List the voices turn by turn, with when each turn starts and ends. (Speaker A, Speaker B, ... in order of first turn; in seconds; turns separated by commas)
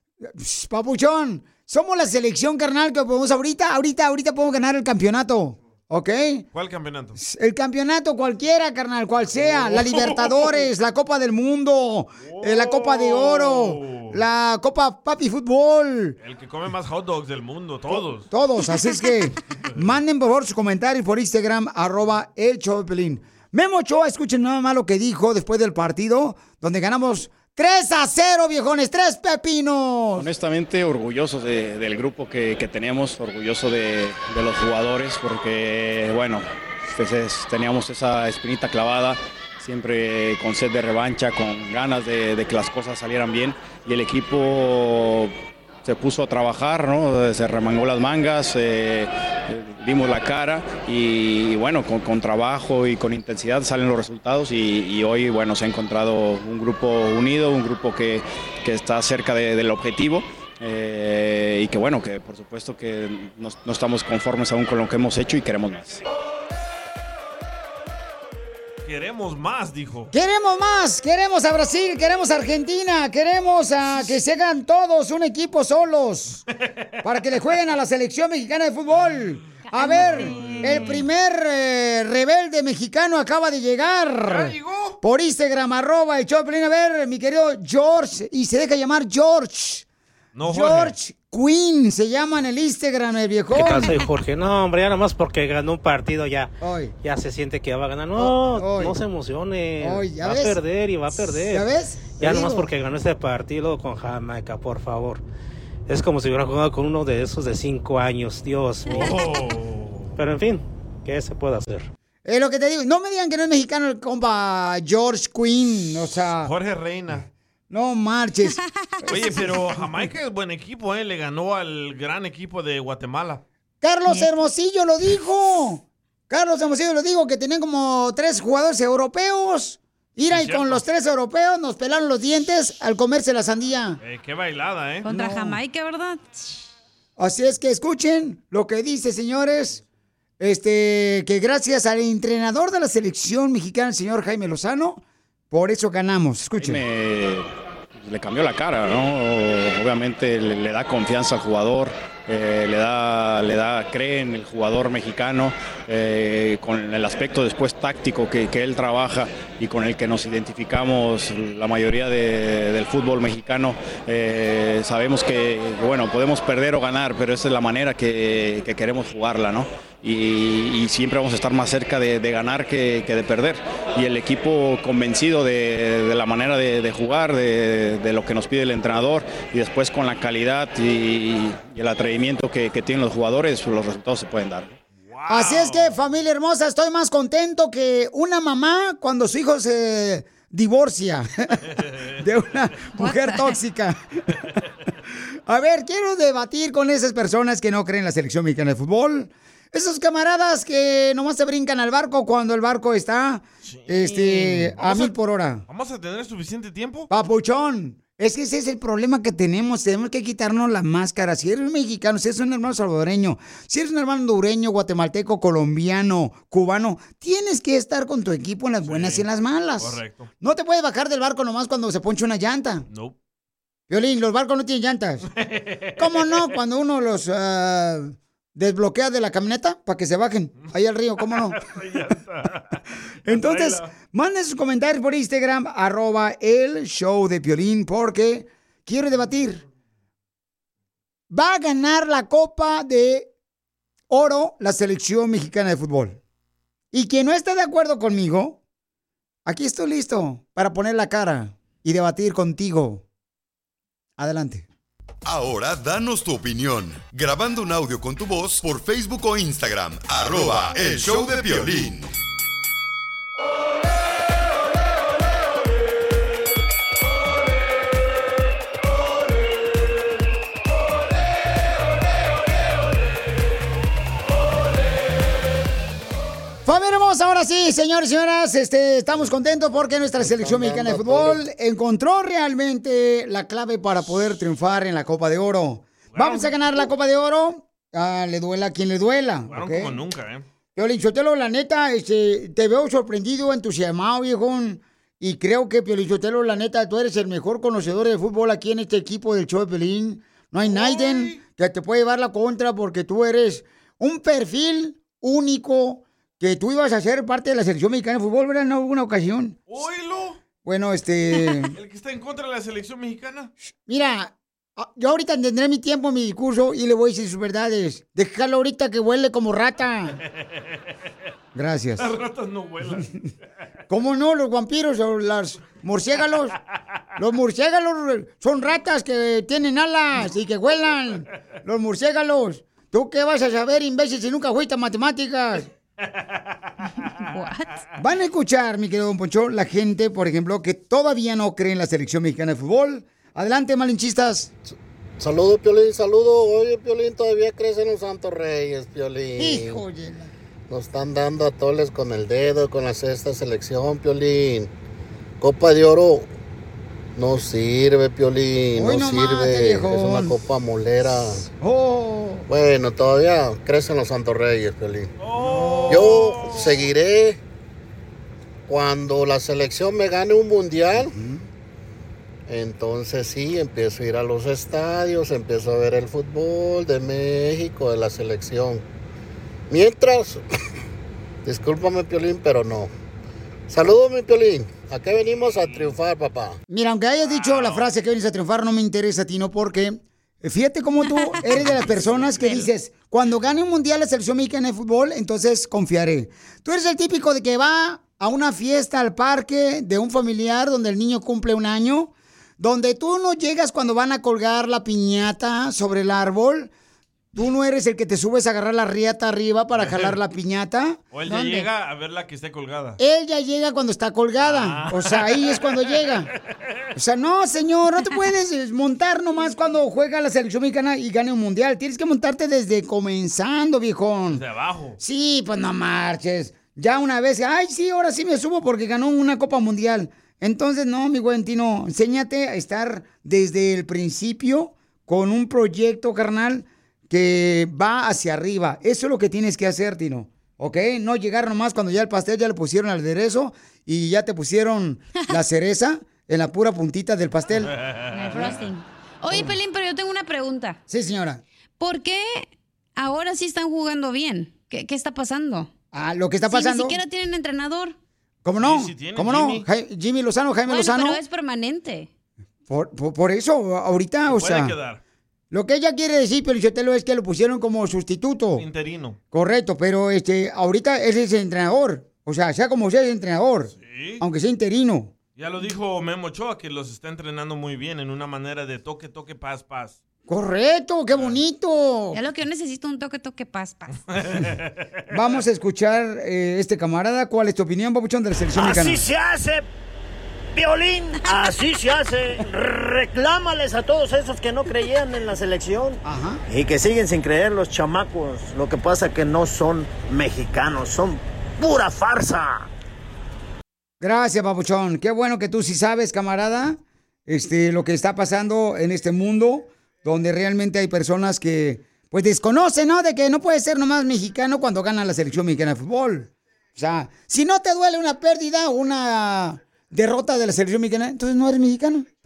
Speaker A: 0.2-6.5, Speaker B: 6.5-7.2, Speaker A: 7.2-16.2, Speaker B: 9.3-10.6, Speaker B: 12.2-14.2, Speaker B: 16.2-18.3, Speaker A: 17.9-30.3, Speaker C: 30.2-66.0, Speaker B: 68.8-70.1, Speaker A: 70.1-76.4, Speaker A: 77.0-89.8, Speaker D: 79.7-81.0, Speaker B: 79.9-81.0, Speaker B: 84.3-85.0, Speaker B: 90.3-90.9, Speaker A: 90.5-94.0, Speaker E: 93.5-105.2, Speaker A: 96.6-96.9, Speaker A: 98.5-99.0, Speaker A: 99.8-100.6, Speaker A: 101.4-102.7, Speaker E: 105.9-109.2, Speaker B: 109.0-110.1, Speaker E: 110.2-111.9, Speaker A: 112.2-116.5, Speaker B: 116.3-117.3, Speaker A: 117.7-119.9, Speaker B: 119.1-123.4, Speaker A: 123.8-134.0, Speaker B: 130.3-130.9, Speaker B: 134.0-135.1, Speaker D: 135.0-136.2, Speaker A: 135.1-135.6, Speaker A: 137.2-139.8, Speaker A: 140.4-146.8, Speaker C: 146.6-184.8, Speaker B: 185.1-186.0, Speaker A: 185.3-191.6, Speaker A: 192.2-194.0, Speaker D: 193.0-193.6, Speaker A: 195.5-205.6, Speaker B: 203.7-205.1, Speaker B: 205.7-207.1, Speaker A: 207.1-222.9, Speaker B: 218.8-219.2, Speaker B: 219.8-220.3, Speaker B: 222.9-223.2, Speaker A: 223.9-225.3, Speaker B: 225.4-226.5, Speaker A: 226.0-231.6, Speaker B: 230.6-233.9, Speaker A: 233.3-239.6, Speaker A: 241.3-243.3, Speaker A: 244.1-246.2, Speaker A: 246.9-248.6, Speaker A: 249.5-253.0, Speaker A: 254.2-254.7, Speaker F: 255.3-262.1, Speaker A: 276.6-290.0, Speaker G: 280.2-281.4, Speaker B: 286.1-286.6, Speaker B: 289.5-290.4, Speaker A: 290.8-309.6, Speaker B: 300.6-301.4, Speaker B: 309.7-310.4, Speaker A: 310.6-311.8, Speaker B: 311.7-313.5, Speaker A: 313.9-320.2, Speaker A: 321.6-322.1, Speaker B: 322.0-323.1, Speaker A: 323.9-326.6, Speaker A: 327.2-335.7, Speaker B: 336.0-337.1, Speaker D: 337.1-337.8, Speaker A: 338.0-344.5, Speaker G: 345.2-349.8, Speaker A: 349.4-350.3, Speaker G: 350.7-354.7, Speaker G: 355.4-356.3, Speaker G: 357.2-361.5, Speaker A: 358.8-360.4, Speaker A: 361.6-362.5, Speaker G: 362.5-365.1, Speaker B: 365.2-366.9, Speaker G: 365.9-367.4, Speaker G: 368.7-371.1, Speaker G: 372.5-378.9, Speaker G: 379.7-380.4, Speaker G: 381.4-382.9, Speaker G: 383.7-386.6, Speaker A: 386.7-406.7, Speaker B: 387.2-387.9, Speaker D: 391.1-391.4, Speaker A: 407.3-411.7, Speaker B: 409.7-410.2, Speaker B: 411.1-413.0, Speaker A: 413.0-416.3, Speaker B: 414.4-416.2, Speaker A: 416.9-424.4, Speaker B: 424.3-425.0, Speaker A: 425.0-447.7, Speaker B: 447.5-448.6, Speaker D: 448.1-450.8, Speaker A: 450.9-451.4, Speaker D: 451.8-455.7, Speaker A: 455.9-457.0, Speaker D: 456.5-458.0, Speaker A: 458.4-461.2, Speaker B: 458.6-459.7, Speaker D: 460.7-462.1, Speaker A: 462.7-464.8, Speaker B: 464.3-465.0, Speaker A: 465.5-468.7, Speaker B: 468.6-469.2, Speaker A: 469.3-475.1, Speaker B: 473.8-474.2, Speaker B: 475.4-480.0, Speaker A: 480.3-482.2, Speaker B: 481.1-481.4, Speaker D: 482.1-484.0, Speaker B: 484.1-484.7, Speaker A: 485.1-489.1, Speaker H: 488.5-489.6, Speaker H: 490.5-502.6, Speaker A: 496.0-496.4, Speaker A: 504.0-522.1